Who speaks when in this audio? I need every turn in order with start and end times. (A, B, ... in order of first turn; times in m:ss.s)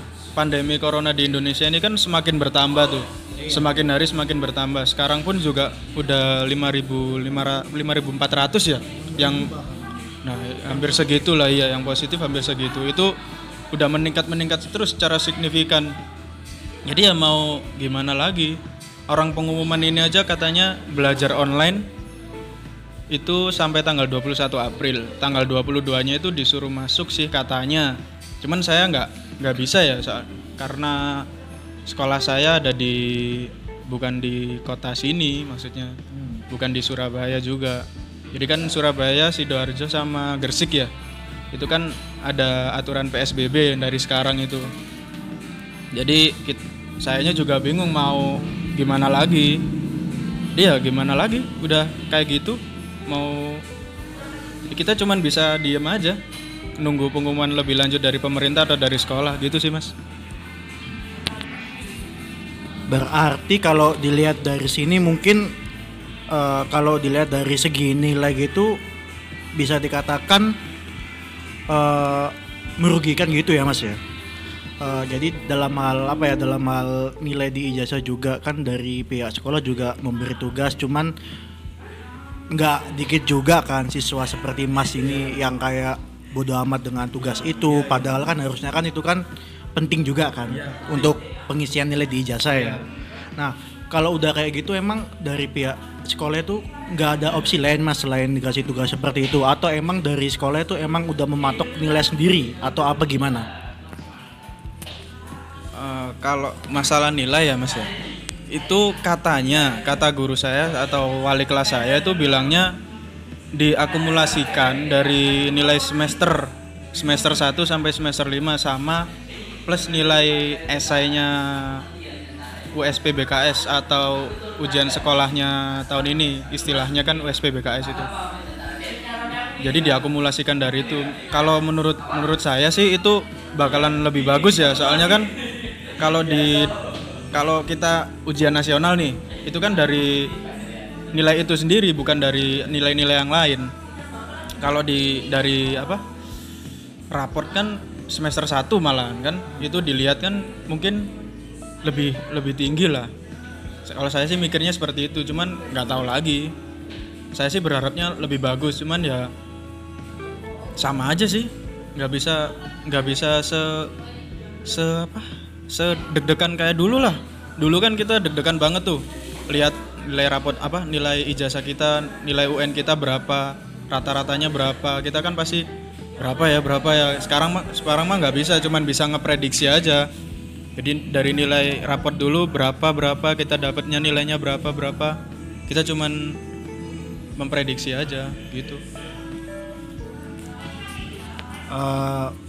0:00.3-0:09.5 A
0:03.4-0:03.7 B
0:08.9-0:10.1 B
0:10.2-0:13.1 A
0:13.7-0:15.9 A
0:16.8-0:21.9 A
0:23.1-0:31.3 A
0:31.8-0:36.0 A
0:36.1-0:36.4 B
0:36.5-0:40.9 A
0:41.5-0:44.7 A
0:45.9-0:49.6 A
0:50.5-0:53.6 A
0:54.7-0:56.2 A
0:56.8-0:59.9 A
1:02.9-1:05.5 B
1:06.3-1:08.8 B
1:09.5-1:10.6 B
1:11.7-1:14.0 B
1:14.8-1:21.1 B
1:22.5-1:32.8 B
1:27.4-1:28.0 A
1:30.5-1:31.1 A
1:32.5-1:32.8 A
1:33.4-1:43.5 B
1:45.7-1:47.9 A
1:48.5-1:52.8 A
1:53.5-1:59.1 A
1:59.7-2:01.8 A
2:02.7-2:08.1 A
2:09.6-2:15.3 A
2:16.0-2:16.7 A
2:17.3-2:20.3 A
2:21.1-2:23.7 A
2:24.6-2:26.0 A
2:27.1-2:31.1 A
2:31.8-2:33.1 A
2:33.8-2:36.5 A
2:37.3-2:39.3 A
2:40.8-2:43.9 A
2:44.6-2:55.6 A
2:56.2-3:00.1 A
3:00.8-3:06.4 A
3:07.4-3:08.8 A
3:11.7-3:12.4 B